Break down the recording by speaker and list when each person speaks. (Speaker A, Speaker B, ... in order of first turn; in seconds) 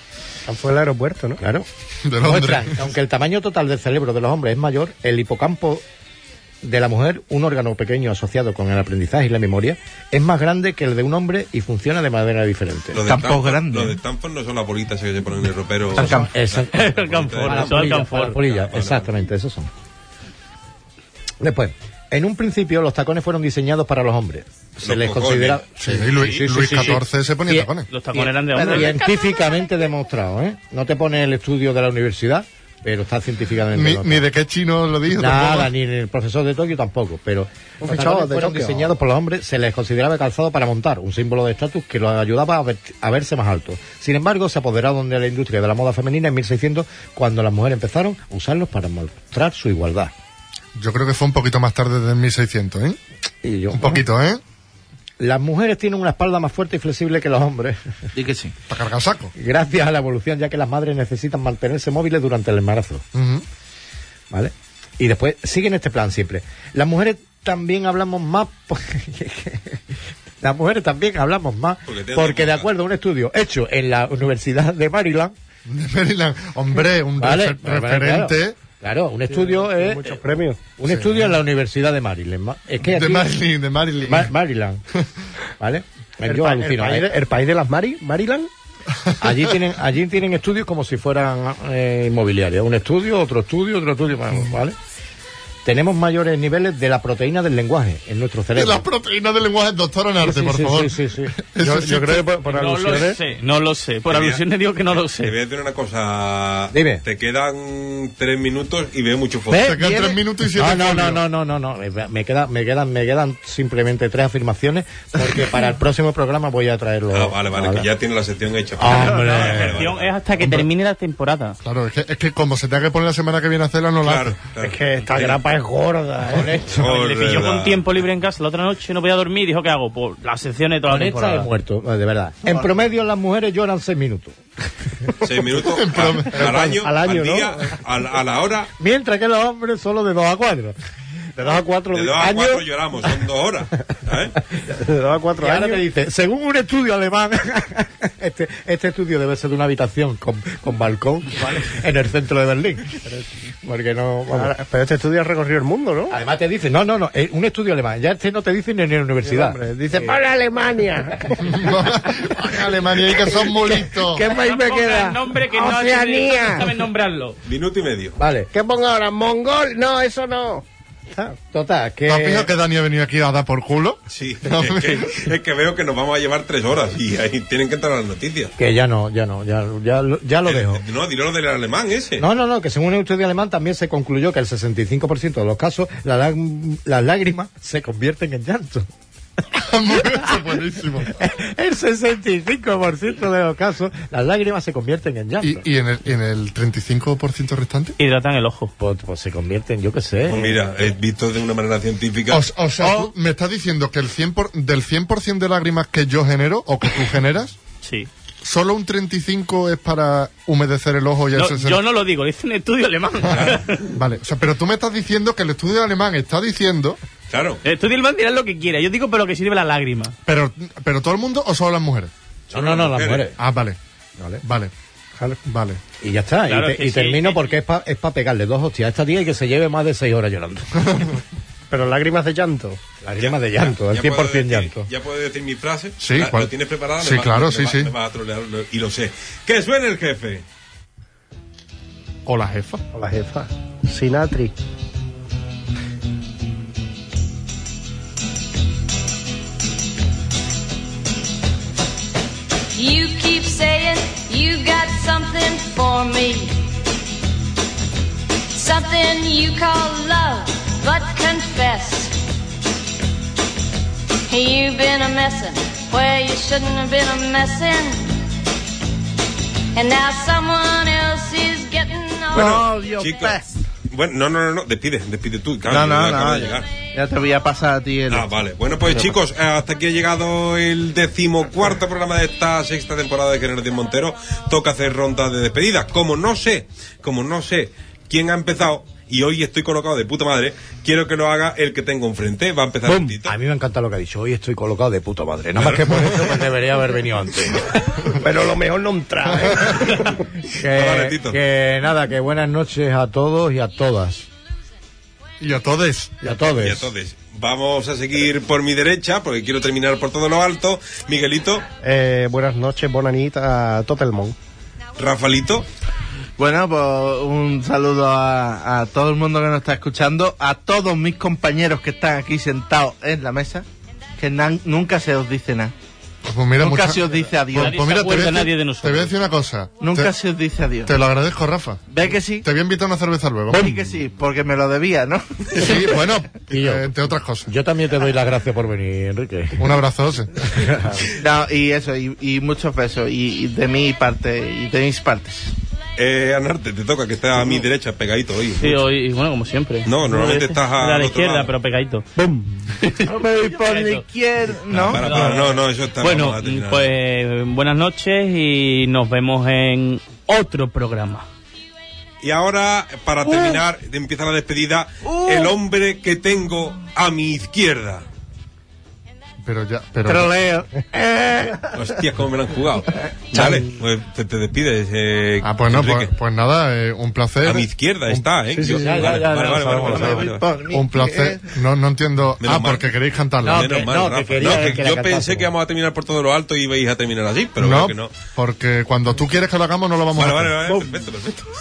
Speaker A: 0.5-1.4, 37.8-38.9, 79.3-80.6, 86.2-88.5, 101.6-103.2, 124.6-126.6, 136.3-137.8, 141.4-142.7, 144.7-145.8, 154.3-156.2, 159.2-164.3, 164.9-166.8, 168.5-171.4, 231.7-232.8, 242.9-244.5, 298.1-300.2, 311.8-314.4, 352.2-352.7, 378.6-379.3
Speaker B: 1.4-1.7, 2.2-5.8, 6.6-13.0, 15.9-16.8, 17.4-19.7, 21.4-34.3, 35.2-50.1, 53.4-54.0, 55.2-57.8, 59.4-63.0, 64.3-75.3, 77.2-80.2, 80.8-83.3, 84.1-84.8, 85.6-87.1, 89.2-94.8, 95.6-98.8, 100.2-101.4, 106.7-107.0, 109.5-109.8, 110.5-117.9, 118.8-119.8, 120.4-120.7, 126.3-126.9, 130.9-134.4, 138.8-140.8, 145.4-153.0, 153.6-154.5, 156.1-160.2, 164.1-165.1, 168.2-168.5, 171.5-172.5, 178.6-180.8, 182.2-188.9, 191.1-195.6, 198.8-200.7, 222.5-223.4, 226.0-230.9, 233.0-234.9, 292.9-297.7, 300.4-304.3, 306.2-306.9, 336.5-336.9, 337.5-339.8, 340.5-341.0, 370.1-371.7, 373.3-373.8, 378.6-380.3, 383.4-385.5
Speaker C: 2.0-2.9, 25.8-27.9, 33.7-35.7, 50.8-53.0, 53.7-54.4, 58.7-59.3, 63.1-63.5, 75.7-78.6, 80.8-81.3, 82.9-84.3, 89.0-89.5, 98.5-102.3, 109.5-111.2, 121.6-124.4, 135.6-136.6, 161.4-164.2, 172.1-175.3, 189.6-191.1, 195.4-198.0, 202.3-207.6, 208.4-211.8, 213.3-217.0, 220.3-222.1, 223.4-223.8, 224.4-224.7, 225.4-225.8, 230.8-231.2, 236.0-237.9, 242.3-242.8, 299.4-299.7, 305.4-306.3, 326.2-330.1, 330.9-331.8, 332.4-333.7, 335.5-337.5, 339.6-340.7, 369.4-370.3, 375.4-378.3, 379.9-383.7, 387.6-390.8
Speaker D: 12.9-19.1, 24.8-25.7, 71.9-72.7, 104.1-104.4, 105.2-109.7, 117.1-120.2, 124.0-125.4, 126.8-127.9, 135.2-138.7, 141.9-144.4, 167.4-168.2, 174.1-178.5, 180.5-182.3, 200.3-202.5, 213.3-213.7, 217.3-217.6, 222.5-223.3, 233.2-240.4, 272.4-276.7, 278.1-293.4, 295.6-296.0, 300.7-301.4, 306.5-311.7, 315.0-315.7, 346.0-348.8, 349.9-351.5, 354.7-356.9, 362.2-368.1, 371.7-376.1, 377.4-380.5, 382.4-382.9, 383.5-388.1, 390.1-391.5
Speaker E: 13.1-14.0, 16.0-16.3, 28.5-29.1, 58.1-58.5, 109.8-110.2, 118.9-119.4, 272.3-273.6, 275.7-278.3, 278.9-279.2, 316.4-323.6, 324.2-325.7, 326.6-328.0, 329.8-330.9, 331.9-332.5, 333.5-336.1, 341.1-345.6, 353.0-355.4, 379.7-381.6
Speaker F: 16.7-18.4, 27.9-29.1, 102.5-105.3, 118.9-121.6, 126.8-131.5, 164.2-167.4, 198.0-198.7, 207.8-208.1, 211.3-213.9, 217.6-220.2, 226.4-227.6, 327.6-329.1, 348.6-352.1, 352.8-354.1, 354.9-361.3
Speaker G: 252.7-256.6, 258.5-262.2, 264.3-268.2, 269.8-272.6